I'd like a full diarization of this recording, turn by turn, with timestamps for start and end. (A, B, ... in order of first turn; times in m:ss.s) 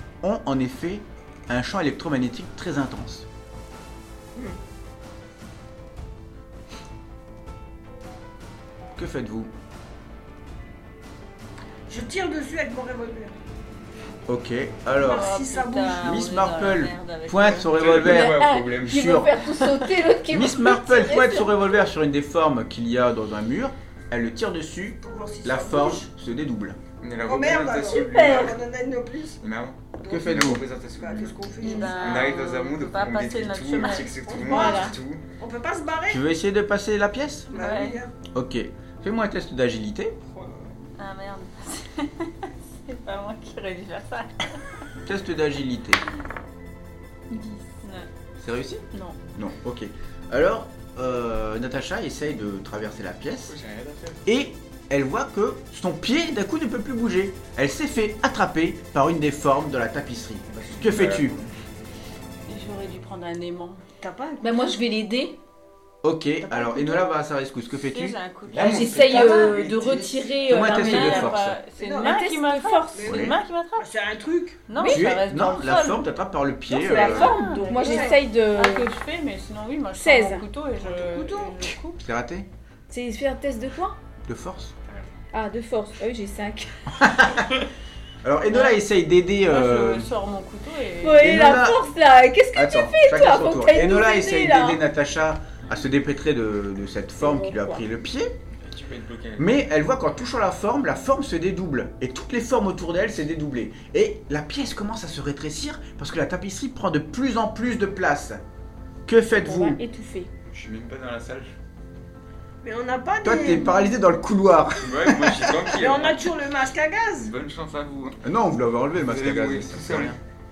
0:00.2-0:03.3 A
0:09.0-0:09.5 A
0:11.9-0:13.3 B
0:14.3-0:15.3 A
0:14.9-0:16.2 B
0:15.0-0:17.8 C
0:16.0-0:19.4 A
0:17.7-0:19.2 D
0:18.0-0:21.8 E
0:19.6-0:19.8 C
0:20.3-0:26.8 A
0:25.0-0:26.1 B
0:27.0-0:28.6 D
0:27.2-0:29.4 B
0:29.4-0:35.2 D
0:30.0-0:32.3 B
0:30.1-0:30.6 A
0:31.6-0:32.0 E
0:31.6-0:34.1 C
0:34.2-0:36.2 B
0:34.4-0:35.0 E
0:36.1-0:37.5 A
0:37.5-0:38.0 C
0:37.5-0:38.1 B
0:38.3-0:40.2 A
0:40.2-0:40.8 B
0:41.0-0:44.6 C
0:45.0-0:46.0 A
0:47.3-0:48.1 C
0:48.4-0:53.5 A
0:48.9-0:49.2 C
0:53.4-0:54.2 D
0:54.2-1:01.3 A
1:00.5-1:01.5 D
1:02.5-1:03.8 C
1:04.0-1:04.7 B
1:04.4-1:05.4 E
1:06.0-1:08.2 A
1:06.4-1:07.1 B
1:07.9-1:09.6 C
1:08.5-1:10.3 D
1:08.6-1:11.4 E
1:09.2-1:09.7 B
1:10.4-1:11.6 A
1:10.5-1:13.9 C
1:11.8-1:12.2 B
1:12.0-1:13.1 E
1:12.9-1:14.6 B
1:13.1-1:13.4 A
1:14.7-1:16.0 C
1:14.7-1:15.0 E
1:14.8-1:17.4 A
1:16.7-1:18.9 E
1:16.8-1:22.0 C
1:17.7-1:18.2 B
1:20.0-1:20.4 E
1:20.8-1:21.7 B
1:22.0-1:22.5 A
1:22.9-1:24.0 E
1:24.2-1:24.7 A
1:25.3-1:26.9 E
1:27.0-1:27.6 A
1:28.2-1:30.1 A
1:28.5-1:28.8 C
1:29.4-1:31.5 C
1:31.0-1:34.8 E
1:31.2-1:31.8 A
1:32.5-1:38.3 A
1:37.2-1:37.8 E
1:38.6-1:39.6 D
1:39.4-1:48.4 A
1:49.0-1:49.8 A
1:49.3-1:50.3 E
1:50.5-1:51.5 D
1:52.6-1:53.9 B
1:53.2-1:55.6 A
1:54.8-1:56.3 D
1:55.8-1:57.3 B
1:57.2-1:58.2 D
1:58.2-2:00.2 A
1:59.0-2:00.2 D